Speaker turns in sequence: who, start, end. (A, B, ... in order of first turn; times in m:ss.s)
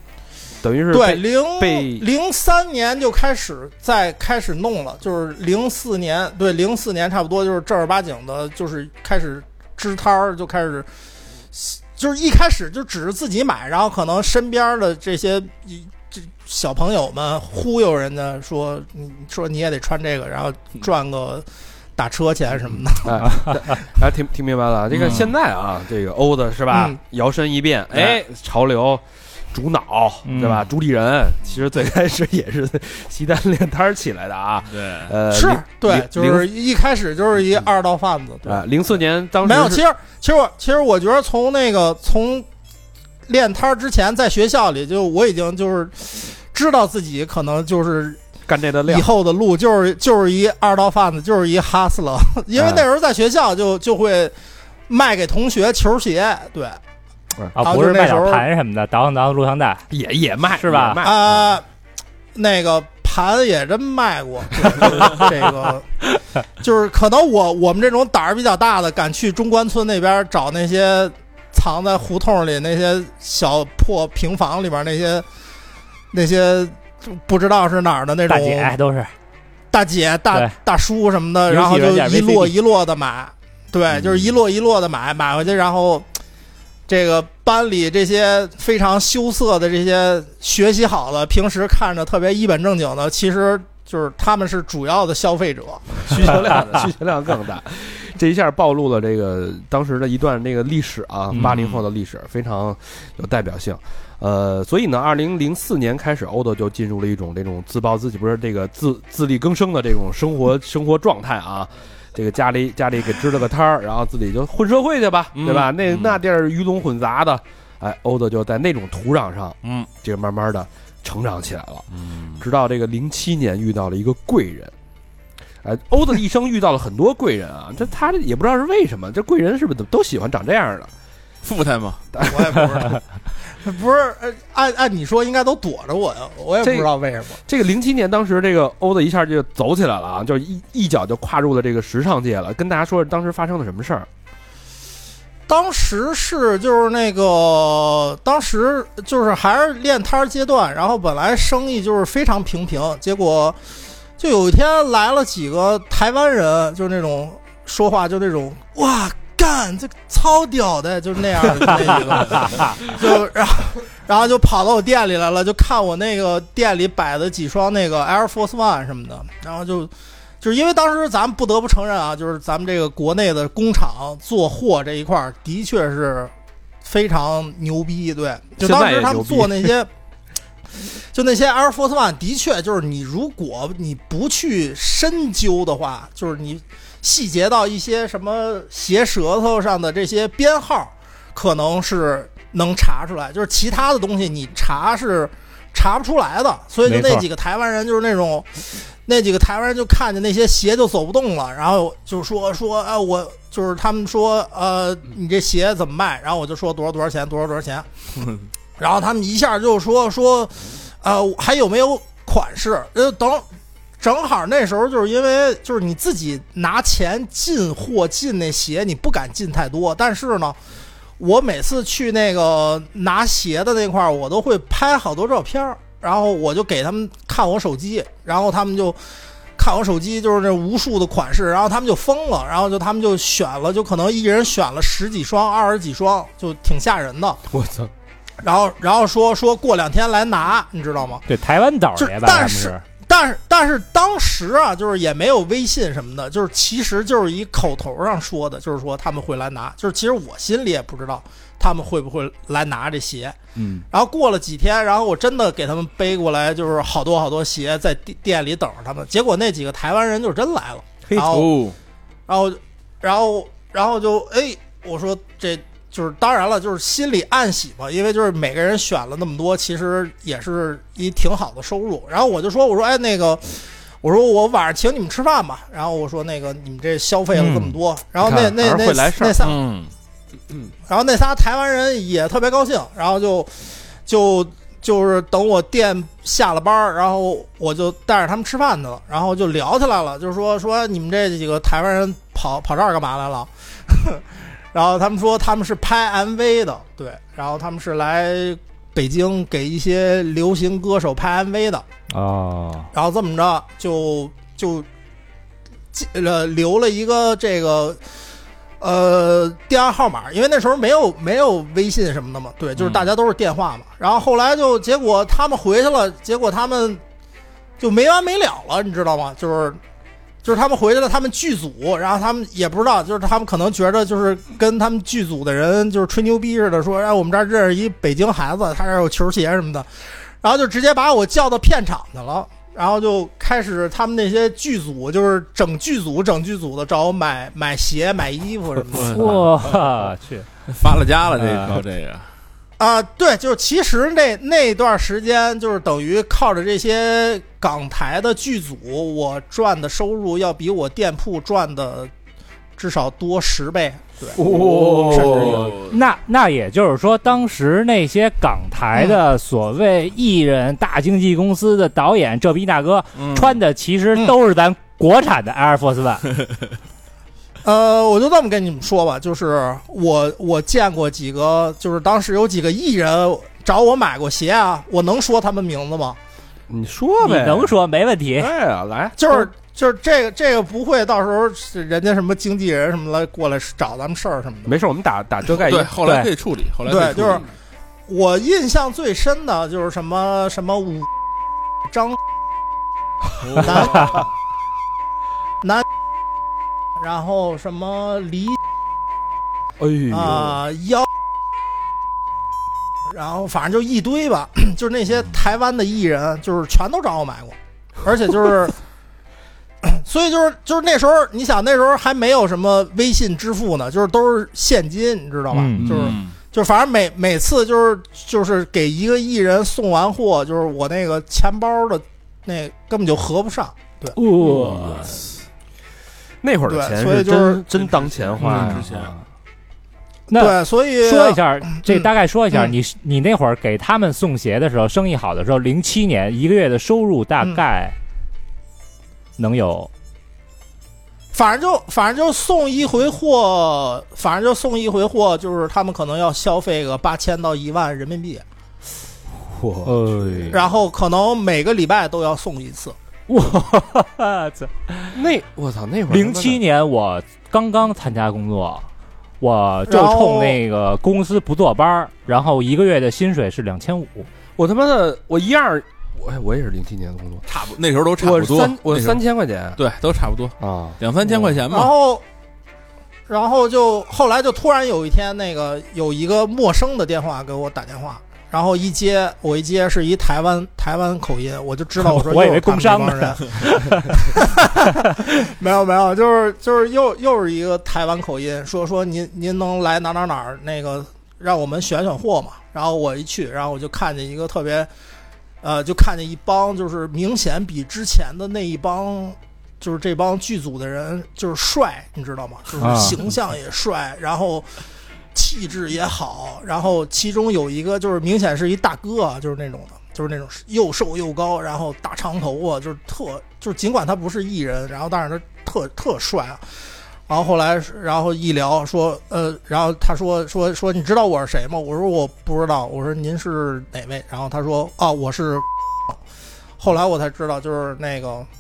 0:00.6-0:02.0 A
0:00.9-0:10.9 B
0:11.5-0:23.3 B
0:23.0-0:36.5 A
0:24.9-0:25.3 C
0:26.7-0:27.0 B
0:30.3-0:30.6 D
0:34.7-0:35.1 C
0:35.3-0:38.6 B
0:38.4-0:39.8 A
0:39.4-0:42.4 B
0:43.3-0:48.2 B
0:48.5-0:49.1 A
0:48.9-0:54.3 B
0:52.5-0:52.8 A
0:54.9-0:56.8 B
0:57.6-0:59.8 D
0:57.6-0:58.4 B
0:59.9-1:01.5 A
1:00.6-1:01.0 D
1:01.0-1:01.6 B
1:02.3-1:05.9 B
1:06.6-1:15.2 B
1:16.1-1:18.7 B
1:18.3-1:19.1 D
1:19.7-1:26.1 B
1:21.5-1:22.5 D
1:23.9-1:24.3 A
1:26.9-1:36.4 B
1:36.0-2:01.9 A
1:41.4-1:41.8 C
1:55.3-1:56.2 C
1:59.6-1:59.9 C
2:01.9-2:02.4 C
2:02.4-2:04.7 A
2:05.6-2:10.9 A
2:11.4-2:12.0 C
2:12.1-2:12.9 A
2:12.2-2:17.4 B
2:16.6-2:16.9 A
2:17.4-2:24.1 A
2:25.5-2:33.6 B
2:34.2-2:56.3 B
2:56.8-2:59.9 B
2:58.6-2:59.7 A
3:01.1-3:27.9 B
3:16.8-3:17.2 D
3:28.8-3:33.4 B
3:34.0-3:40.6 B
3:41.2-3:49.0 B
3:49.6-3:57.4 B
3:57.5-3:57.9 A
3:58.4-4:01.2 B
4:01.3-4:02.8 D
4:02.0-4:13.4 B
4:13.9-4:21.5 B
4:21.0-4:21.4 A
4:21.1-4:21.8 C
4:22.3-4:39.6 B
4:37.4-4:37.7 D
4:38.2-4:39.5 A
4:39.4-4:39.9 C
4:40.9-5:01.8 B
5:02.1-5:02.9 D
5:02.9-5:04.9 B
5:05.9-5:08.0 B
5:08.8-5:17.0 B
5:17.8-5:19.8 B
5:20.4-5:29.9 B
5:30.4-5:39.2 B
5:38.9-5:40.0 C
5:39.1-5:40.5 D
5:40.7-5:42.3 C
5:41.4-5:41.8 D
5:42.8-5:52.1 B
5:52.8-5:54.4 B
5:54.4-5:55.9 C
5:54.4-5:55.6 A
5:55.1-6:06.3 D
6:03.2-6:03.6 C
6:07.6-6:16.2 B
6:16.7-6:17.8 A
6:17.2-6:18.5 D
6:18.3-6:19.2 A
6:19.2-6:24.7 B
6:24.6-6:25.9 A
6:25.6-6:27.4 C
6:26.0-6:26.3 D
6:26.8-6:27.4 B
6:28.1-6:31.1 B
6:31.8-6:32.2 B
6:33.4-6:34.2 C
6:33.6-6:34.2 B
6:37.0-6:38.6 B
6:39.8-6:40.6 A
6:40.1-6:41.1 B
6:43.1-6:48.8 B
6:49.8-7:04.2 B
6:55.5-6:56.1 D
6:55.8-6:56.3 C
7:04.1-7:05.2 D
7:04.4-7:05.2 C
7:04.5-7:05.0 A
7:06.4-7:09.2 A
7:06.7-7:07.6 B
7:07.8-7:09.1 C
7:10.3-7:18.0 D
7:10.3-7:12.7 B
7:19.4-7:19.9 D
7:21.3-7:28.4 B
7:29.4-7:30.6 A
7:29.8-7:30.6 D
7:30.5-7:33.0 B
7:33.3-7:35.1 D
7:35.1-7:36.6 A
7:36.1-7:38.9 D
7:39.4-7:44.3 D
7:39.9-7:40.6 B
7:44.6-7:47.4 A
7:47.5-7:49.2 C
7:48.2-7:49.8 A
7:49.8-7:51.9 C
7:50.6-7:51.6 A
7:51.7-7:52.2 B
7:53.3-8:14.9 B
8:02.0-8:04.4 D
8:15.6-8:24.7 B
8:22.8-8:23.2 D
8:25.3-8:36.6 B
8:37.3-8:46.2 B
8:46.8-8:48.5 B